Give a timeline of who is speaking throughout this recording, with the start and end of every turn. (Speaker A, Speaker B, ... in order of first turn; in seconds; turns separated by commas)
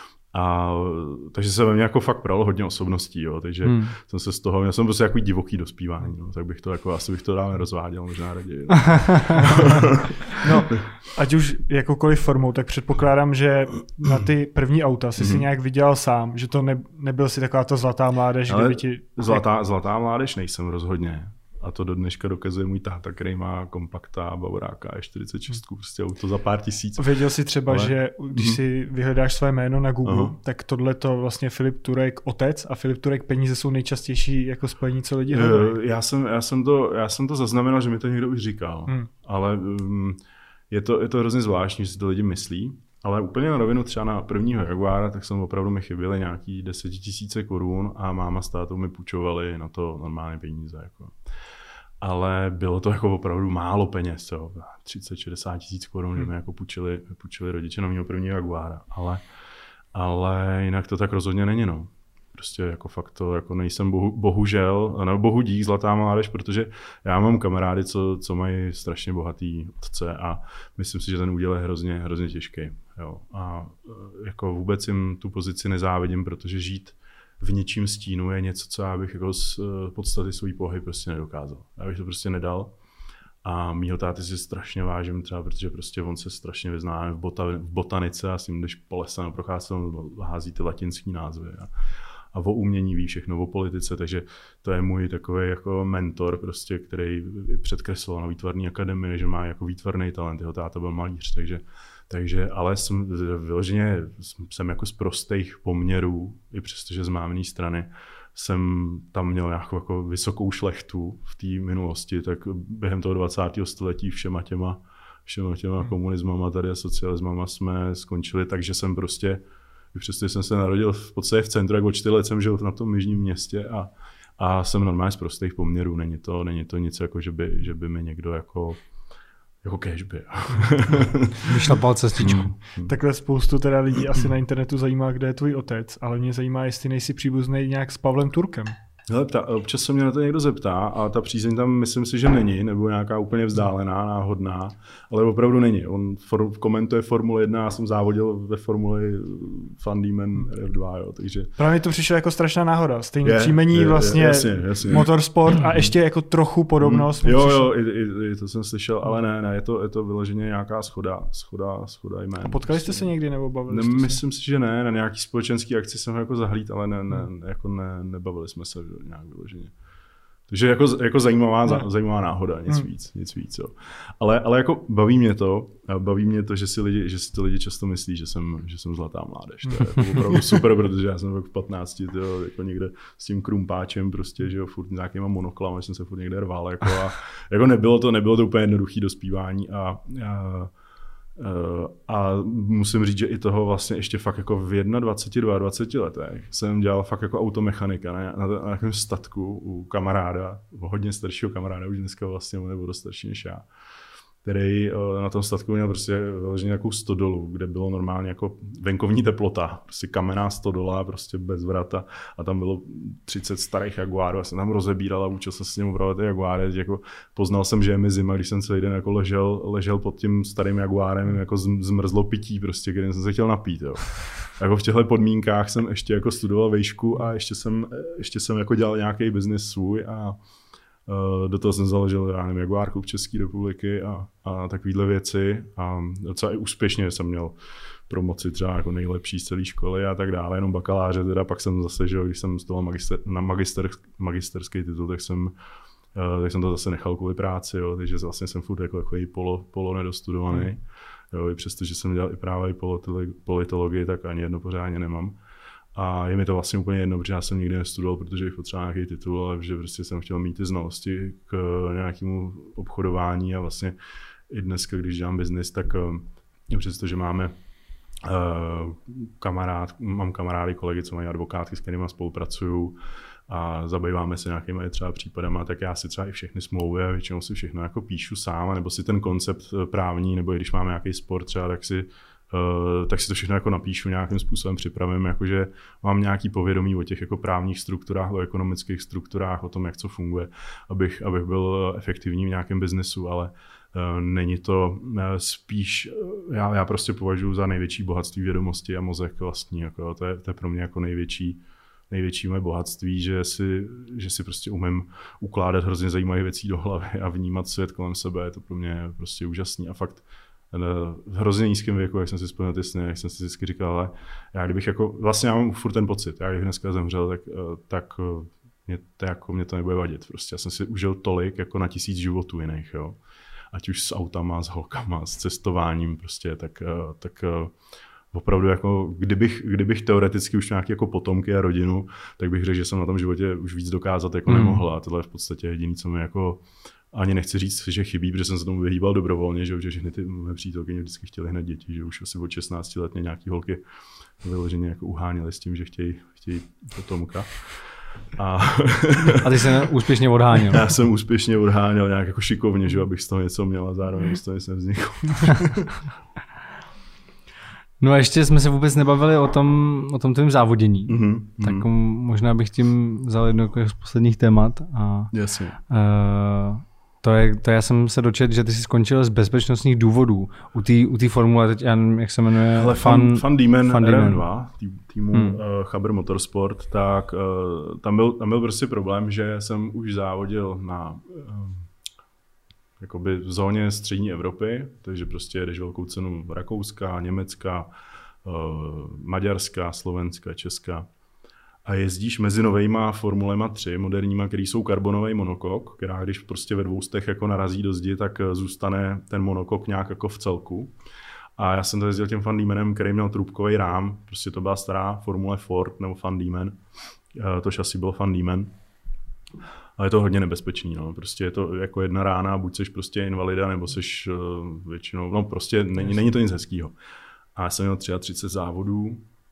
Speaker A: 0.3-10.4, Speaker B: 3.6-3.9, Speaker C: 10.4-19.4, Speaker A: 15.2-15.4, Speaker A: 18.5-28.6, Speaker C: 26.9-35.8, Speaker A: 30.0-30.4, Speaker A: 35.3-40.2, Speaker A: 40.7-51.2, Speaker A: 52.0-59.2, Speaker A: 59.9-82.8, Speaker A: 83.4-91.7, Speaker A: 92.3-128.8, Speaker A: 129.6-132.9, Speaker B: 131.4-132.5, Speaker C: 132.8-138.7, Speaker A: 139.1-151.5, Speaker C: 151.6-157.7, Speaker A: 153.2-155.1, Speaker A: 156.8-163.1, Speaker C: 162.4-164.2, Speaker A: 163.7-169.7, Speaker A: 170.5-190.7, Speaker A: 191.3-203.7, Speaker A: 204.4-230.4, Speaker A: 231.1-237.6, Speaker A: 238.1-245.5, Speaker A: 246.1-255.4, Speaker A: 255.9-263.9, Speaker A: 264.5-267.5, Speaker A: 268.2-323.2, Speaker A: 323.7-327.7, Speaker A: 328.3-343.8, Speaker B: 334.5-334.8, Speaker A: 344.4-347.8, Speaker A: 348.3-349.9, Speaker B: 349.4-350.9, Speaker A: 350.6-355.9, Speaker B: 358.0-365.3, Speaker A: 361.1-361.9, Speaker A: 365.3-365.8, Speaker B: 365.9-374.4, Speaker A: 372.7-381.9, Speaker B: 375.3-375.6, Speaker A: 383.0-387.9, Speaker A: 388.4-391.1, Speaker A: 391.8-400.9, Speaker A: 401.6-406.8, Speaker A: 407.3-408.7, Speaker A: 410.0-416.9, Speaker A: 417.5-419.2